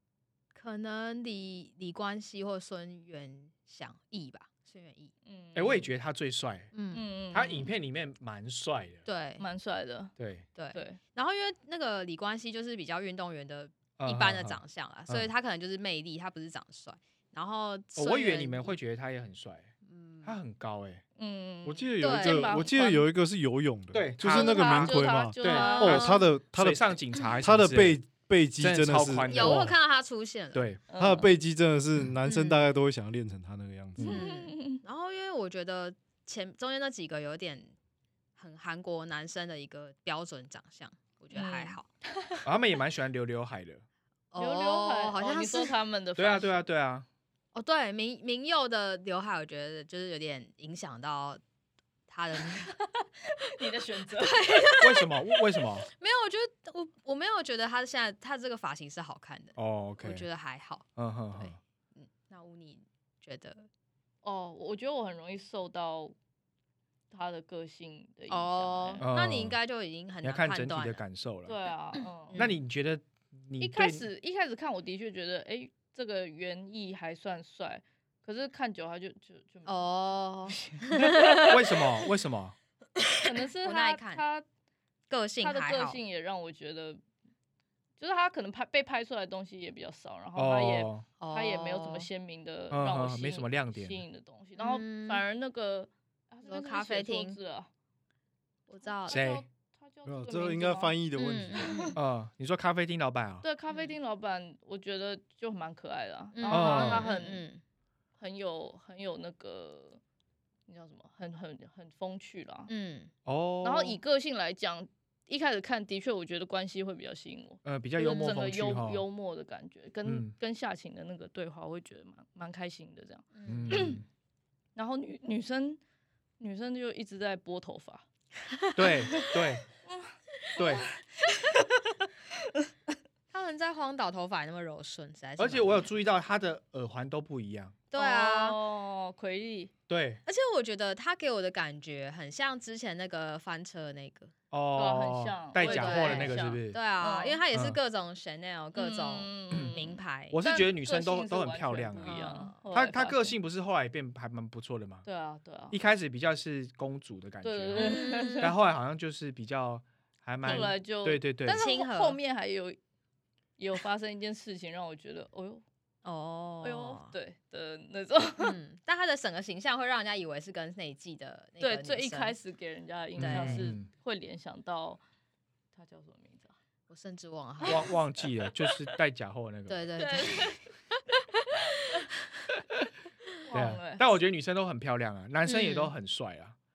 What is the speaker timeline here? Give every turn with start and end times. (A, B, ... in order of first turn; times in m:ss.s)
0:00.5-0:05.1 A
0:05.2-0:05.9 B
0:05.5-0:06.7 C
0:06.7-0:07.1 A
0:06.9-0:07.7 B
0:07.3-0:09.0 C
0:09.0-0:09.4 A
0:09.4-0:10.1 B
0:10.2-0:10.4 C
0:10.6-0:18.8 A
0:10.7-0:11.0 B
0:14.0-0:15.3 C
0:18.0-0:21.0 C
0:19.8-0:20.4 A
0:21.2-0:23.0 B
0:21.6-0:29.7 D
0:22.0-0:22.6 A
0:23.9-0:28.0 C
0:24.3-0:26.2 B
0:25.4-0:26.2 A
0:28.6-0:29.7 C
0:29.3-0:30.6 A
0:30.5-0:30.8 C
0:30.9-0:31.3 B
0:31.0-0:34.2 D
0:32.2-0:32.7 A
0:34.0-0:34.8 B
0:34.1-0:37.7 A
0:38.4-0:41.9 A
0:41.3-0:42.4 B
0:42.4-0:43.8 C
0:44.3-0:45.7 A
0:44.4-0:46.6 B
0:46.2-0:47.1 C
0:47.5-0:51.4 A
0:52.1-0:52.7 A
0:52.6-0:54.6 B
0:54.2-1:03.7 A
0:54.8-0:55.9 C
0:59.6-1:00.3 C
1:01.0-1:01.6 C
1:04.2-1:06.1 B
1:07.1-1:09.0 B
1:08.3-1:11.0 A
1:09.0-1:09.6 C
1:10.2-1:11.6 C
1:11.4-1:12.5 B
1:12.0-1:12.6 A
1:12.4-1:14.0 C
1:13.6-1:21.7 B
1:19.6-1:21.5 A
1:21.4-1:22.5 C
1:23.0-1:24.2 A
1:23.2-1:24.4 B
1:25.1-1:26.0 A
1:25.4-1:27.0 B
1:28.0-1:37.7 B
1:30.4-1:31.0 C
1:31.2-1:32.1 A
1:32.7-1:34.0 C
1:34.6-1:35.2 A
1:36.4-1:37.4 A
1:38.7-1:39.2 A
1:38.8-1:42.0 B
1:39.1-1:39.4 C
1:40.0-1:41.7 D
1:41.2-1:42.0 A
1:42.0-1:43.4 C
1:43.4-1:47.4 B
1:43.7-1:43.9 A
1:46.3-1:47.6 A
1:46.5-1:47.1 C
1:48.2-1:50.0 B
1:50.7-1:52.7 B
1:52.7-1:53.1 A
1:53.2-1:54.0 C
1:53.6-2:04.0 B
1:57.6-1:59.0 C
1:58.0-1:58.4 A
2:00.0-2:00.3 C
2:03.3-2:04.0 A
2:03.5-2:04.0 C
2:04.8-2:05.8 B
2:06.4-2:08.0 B
2:08.7-2:09.6 C
2:09.8-2:12.7 B
2:10.6-2:10.8 C
2:13.3-2:15.9 A
2:15.4-2:17.8 C
2:17.9-2:18.6 A
2:17.9-2:19.7 B
2:19.9-2:20.2 C
2:20.2-2:24.3 A
2:24.5-2:26.8 C
2:24.8-2:27.4 B
2:25.6-2:30.4 A
2:27.5-2:27.8 C
2:28.8-2:33.3 B
2:29.5-2:29.8 C
2:30.3-2:35.0 C
2:32.0-2:32.6 A
2:35.0-2:35.8 B
2:35.7-2:41.6 C
2:37.4-2:38.5 B
2:37.8-2:38.5 A
2:40.4-2:40.7 A
2:40.4-2:42.8 B
2:41.5-2:42.2 A
2:43.6-2:45.6 B
2:46.0-2:47.1 A
2:46.6-2:48.6 B
2:48.4-2:52.4 A
2:51.6-2:55.0 B
2:53.2-2:53.9 C
2:53.2-2:53.7 A
2:55.7-2:56.5 B
2:56.9-2:57.8 A
2:57.6-2:58.7 B
2:57.6-2:59.8 C
2:59.7-3:00.6 A
3:00.0-3:00.6 B
3:01.8-3:02.1 B
3:03.4-3:04.0 B
3:03.5-3:06.6 C
3:05.4-3:05.9 A